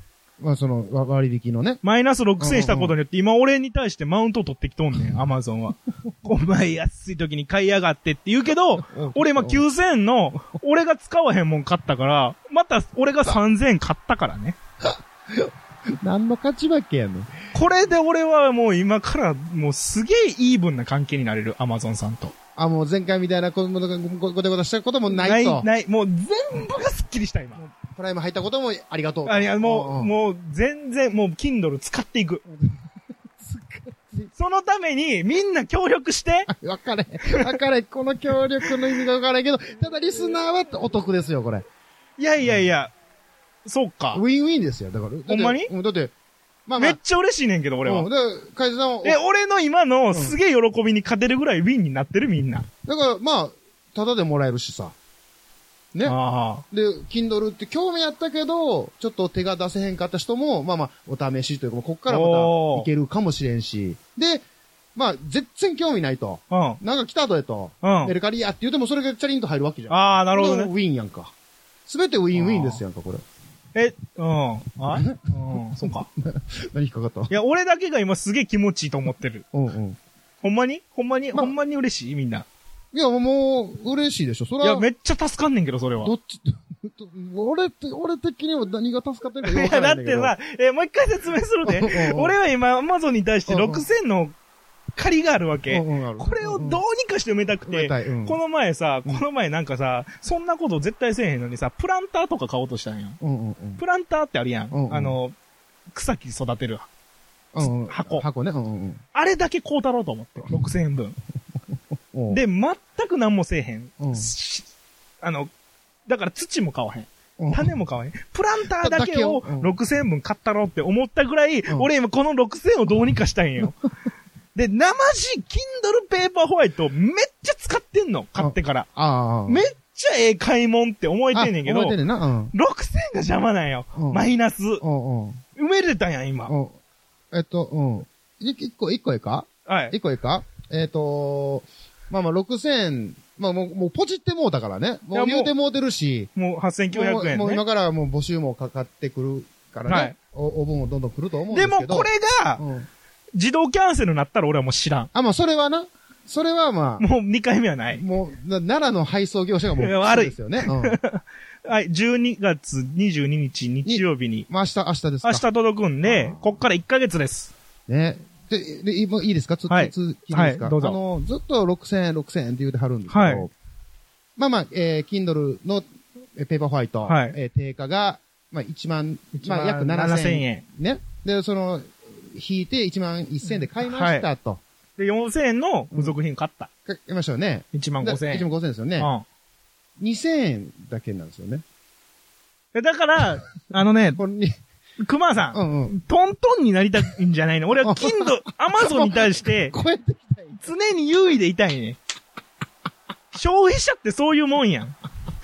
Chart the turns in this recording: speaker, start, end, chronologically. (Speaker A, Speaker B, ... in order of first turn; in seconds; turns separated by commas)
Speaker A: 0.4-1.8, Speaker B: 1.8-14.6, Speaker A: 2.4-2.9, Speaker A: 8.8-9.6, Speaker A: 14.8-17.3, Speaker B: 17.5-22.3, Speaker A: 22.6-25.7, Speaker B: 25.1-27.6, Speaker A: 27.6-30.1, Speaker B: 29.2-32.4, Speaker A: 32.4-34.3, Speaker B: 34.3-36.5, Speaker A: 36.5-41.6, Speaker B: 37.3-37.5, Speaker B: 42.2-42.9, Speaker B: 43.6-44.2, Speaker A: 44.1-46.1, Speaker B: 45.3-45.7, Speaker A: 46.7-47.0, Speaker B: 46.8-48.1, Speaker A: 47.8-49.2, Speaker B: 49.0-52.7, Speaker A: 52.8-54.9, Speaker B: 56.0-56.6, Speaker A: 56.7-71.3, Speaker B: 62.1-62.9, Speaker B: 66.5-66.8, Speaker B: 67.8-68.1, Speaker B: 69.9-70.7, Speaker A: 71.8-73.2, Speaker B: 72.3-72.8, Speaker B: 73.7-76.1, Speaker A: 74.9-75.3, Speaker A: 75.8-77.3, Speaker B: 77.3-79.4, Speaker A: 79.5-80.0, Speaker B: 80.4-82.5, Speaker A: 82.9-84.8, Speaker B: 84.6-86.1, Speaker A: 86.0-90.3, Speaker B: 89.4-94.3, Speaker A: 91.7-92.3, Speaker A: 93.5-93.8, Speaker B: 95.0-103.2, Speaker A: 95.7-96.8, Speaker A: 97.7-98.4, Speaker A: 103.2-103.8, Speaker B: 103.8-105.3, Speaker A: 104.7-105.2, Speaker B: 105.9-106.9, Speaker A: 107.5-109.0, Speaker B: 107.6-108.2, Speaker B: 109.1-111.2, Speaker A: 112.1-112.4, Speaker B: 112.3-114.7, Speaker A: 114.0-114.3, Speaker B: 115.2-115.5, Speaker B: 116.1-123.7, Speaker A: 117.4-117.7, Speaker A: 118.8-119.7, Speaker B: 124.5-128.9, Speaker A: 128.3-129.6, Speaker B: 129.5-131.9, Speaker A: 131.3-132.5, Speaker B: 132.5-134.8, Speaker A: 133.9-134.3, Speaker A: 134.8-135.4, Speaker B: 135.6-136.5, Speaker A: 136.5-136.8, Speaker A: 137.3-146.3, Speaker B: 139.7-139.9, Speaker B: 145.1-145.5, Speaker B: 146.3-147.6, Speaker A: 146.9-152.9, Speaker B: 149.9-150.2, Speaker B: 151.5-152.6, Speaker B: 153.3-155.1, Speaker A: 155.1-157.1, Speaker B: 157.0-158.0, Speaker A: 157.9-161.0, Speaker B: 159.8-164.5, Speaker A: 163.8-165.4, Speaker B: 165.2-167.5, Speaker A: 166.0-166.7, Speaker A: 167.9-173.5, Speaker B: 169.7-171.0, Speaker B: 173.1-173.5, Speaker A: 174.4-184.6, Speaker B: 177.1-177.3, Speaker B: 179.3-180.6, Speaker B: 183.8-184.2, Speaker B: 185.0-186.7, Speaker A: 186.8-189.1, Speaker B: 187.7-188.5, Speaker B: 189.0-189.2, Speaker A: 190.0-191.6, Speaker B: 192.7-194.2, Speaker A: 194.2-194.6, Speaker B: 195.0-199.7, Speaker A: 195.5-196.0, Speaker A: 197.8-200.7, Speaker B: 200.6-202.0, Speaker B: 203.3-204.9